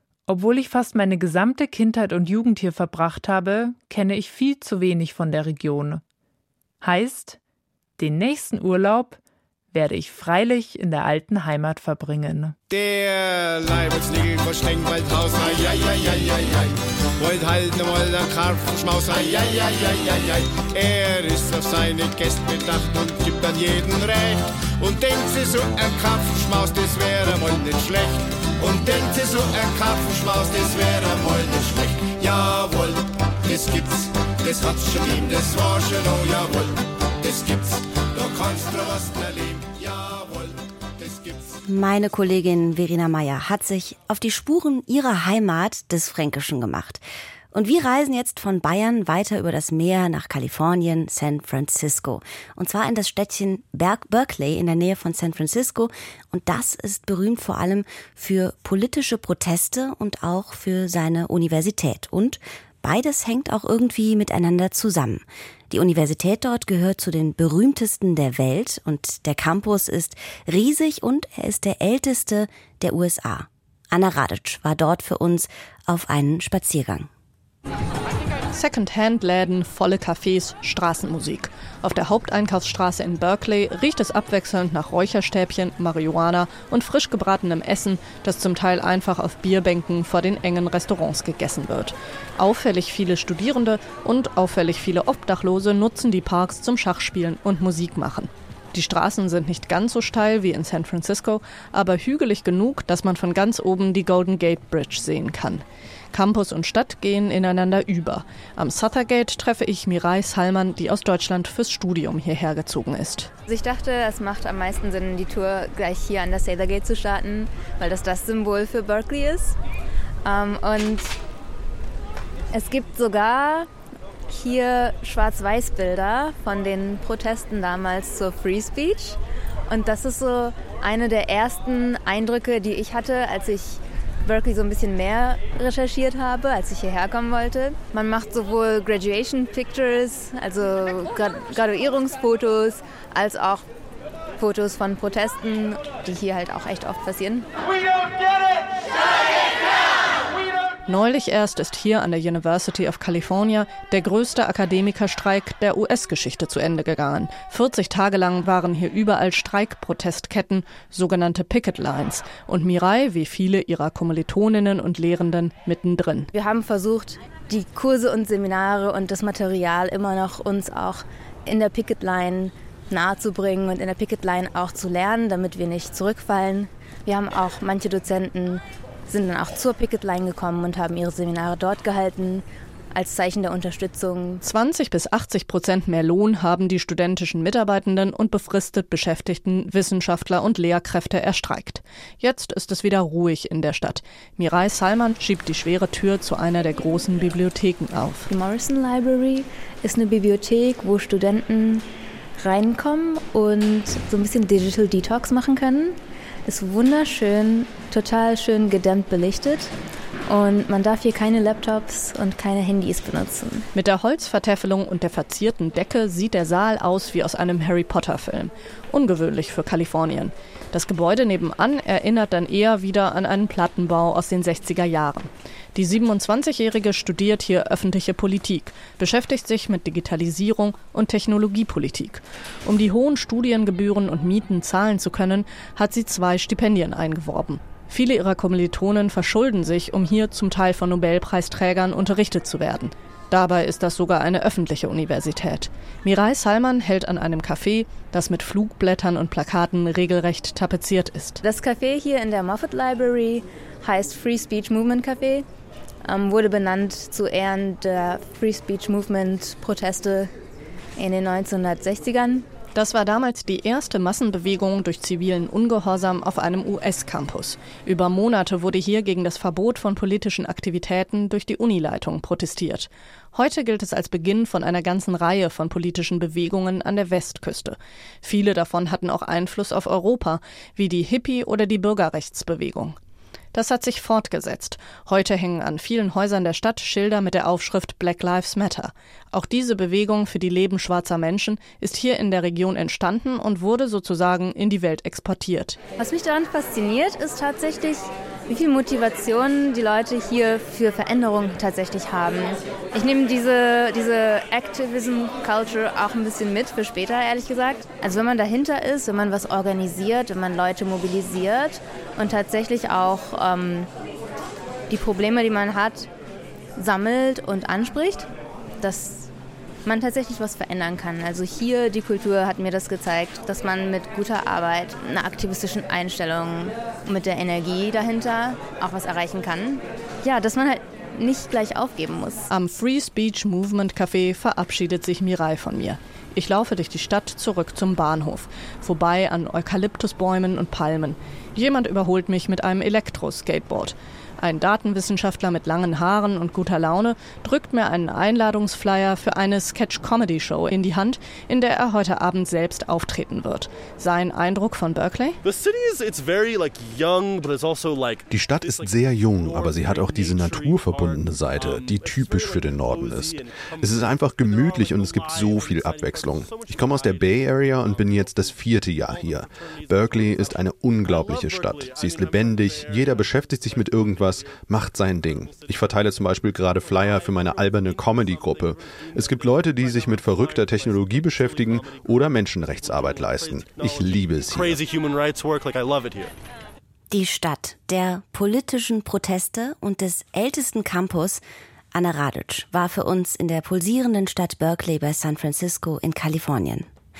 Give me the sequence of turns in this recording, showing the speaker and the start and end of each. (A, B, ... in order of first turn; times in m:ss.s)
0:00.3-0:06.0 A
0:06.8-0:07.4 A
0:08.0-0:09.2 A
0:09.7-0:12.6 A
0:12.7-0:41.6 B
0:41.6-1:17.1 C
1:18.5-1:53.3 D
1:53.5-1:59.6 E
2:00.2-2:01.1 E
2:02.5-2:03.7 E
2:04.3-2:23.6 E
2:24.4-2:27.5 E
2:30.9-2:46.3 D
2:46.3-3:04.4 E
3:04.4-3:18.3 D
3:18.3-3:21.8 E
3:22.4-3:29.7 E
3:30.3-3:33.6 E
3:33.8-4:11.4 D
4:11.4-4:15.4 E
4:16.0-4:20.3 E
4:21.0-4:22.5 E
4:22.8-4:43.0 D
4:43.5-4:55.8 D
4:56.0-5:13.9 E
5:14.9-5:16.1 E
5:16.8-5:18.3 E
5:18.8-5:19.3 E
5:19.9-5:32.5 E
5:32.5-5:55.4 D
5:55.4-6:14.6 F
5:58.3-6:24.8 G
6:15.2-6:26.3 F
6:27.1-6:31.4 C
6:31.9-6:36.9 C